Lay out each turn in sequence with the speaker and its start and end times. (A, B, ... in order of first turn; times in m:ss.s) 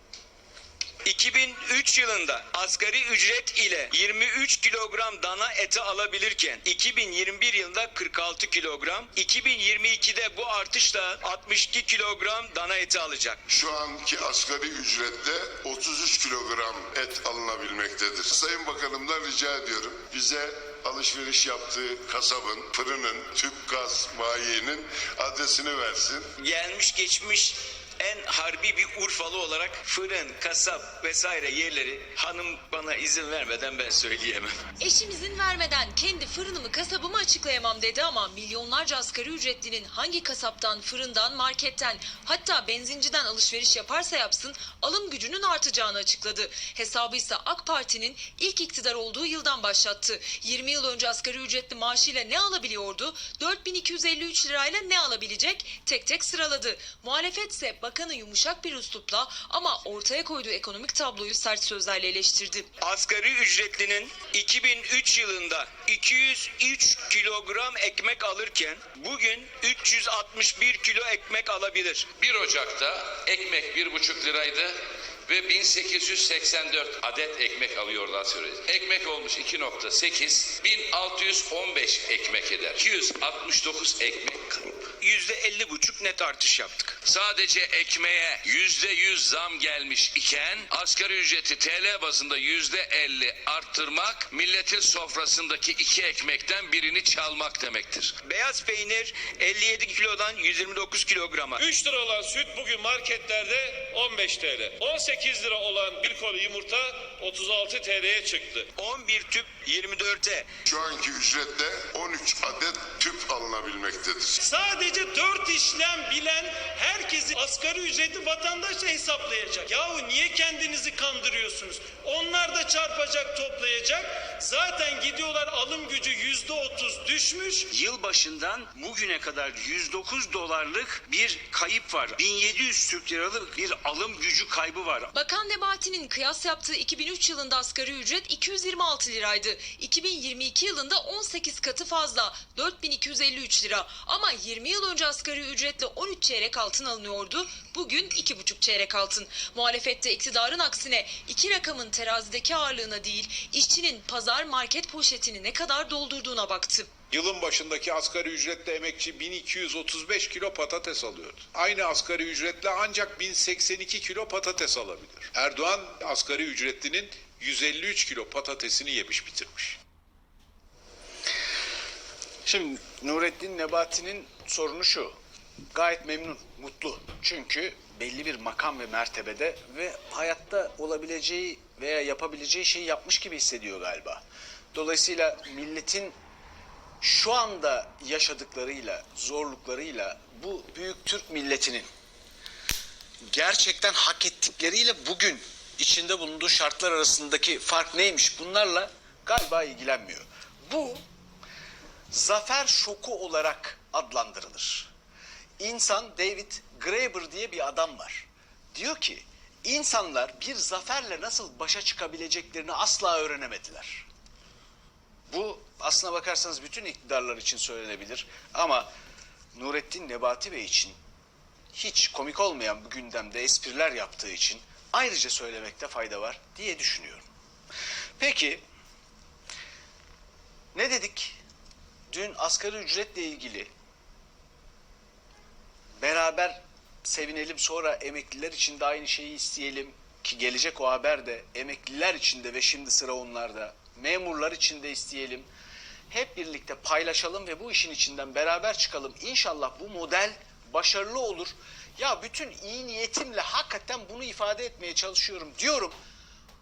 0:01.0-0:13.4 A
0:13.5-0:26.3 B
0:26.4-0:34.5 A
0:34.8-1:02.7 C
1:02.8-1:12.1 A
1:12.1-1:14.8 D
1:15.3-1:24.8 D
1:25.0-1:27.0 A
1:27.0-1:38.1 D
1:38.2-1:41.6 A
1:41.6-1:48.7 E
1:48.8-1:50.5 A
1:50.6-1:54.4 B
1:54.4-2:07.6 E
2:07.7-2:15.1 F
2:15.1-2:36.9 C
2:37.1-2:49.8 G
2:52.4-2:55.2 H
2:55.7-3:04.2 H
3:04.7-3:06.2 H
3:07.0-3:11.9 H
3:13.2-3:21.0 H
3:22.1-3:24.9 H
3:25.6-3:34.0 H
3:35.3-3:38.9 H
3:39.5-3:41.0 H
3:41.7-3:47.2 H
3:48.2-3:48.6 H
3:50.7-3:51.4 H
3:52.1-3:53.7 H
3:56.0-4:05.4 H
4:06.1-4:16.0 H